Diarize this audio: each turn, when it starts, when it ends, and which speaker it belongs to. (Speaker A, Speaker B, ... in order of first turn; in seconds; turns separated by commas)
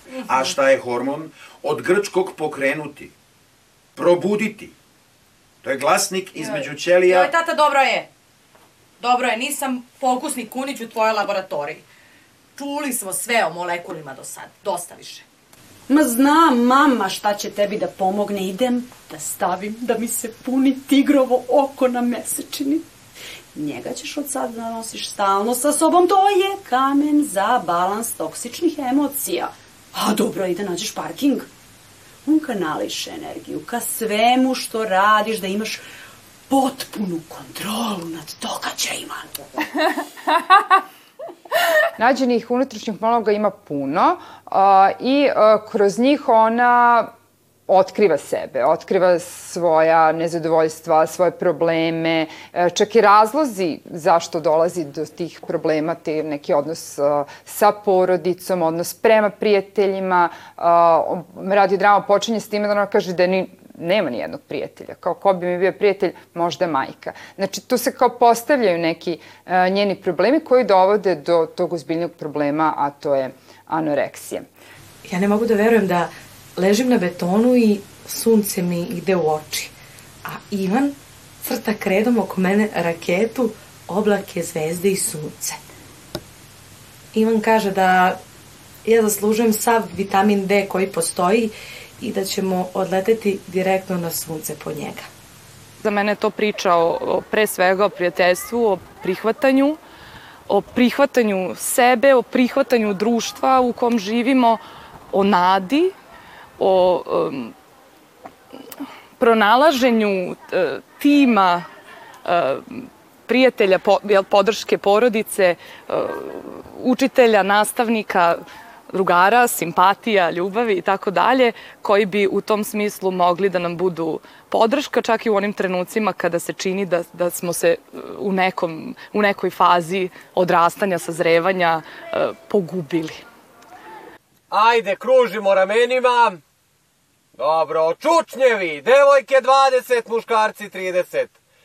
Speaker A: 0.3-3.1, Speaker A: 4.0-4.7, Speaker A: 5.6-7.1, Speaker B: 6.4-8.1, Speaker B: 9.0-11.8, Speaker B: 12.6-15.2, Speaker C: 15.9-22.8, Speaker C: 23.5-31.5, Speaker C: 32.2-35.8, Speaker C: 36.5-39.4, Speaker D: 42.0-47.1, Speaker D: 47.7-74.5, Speaker B: 75.1-79.7, Speaker B: 80.2-85.6, Speaker B: 87.1-88.2, Speaker B: 88.8-95.1, Speaker E: 95.8-99.8, Speaker E: 100.5-104.6, Speaker E: 105.1-105.9, Speaker E: 106.6-107.5, Speaker E: 109.2-111.6, Speaker E: 112.2-118.4, Speaker E: 118.9-133.2, Speaker F: 134.5-136.4, Speaker F: 137.4-141.3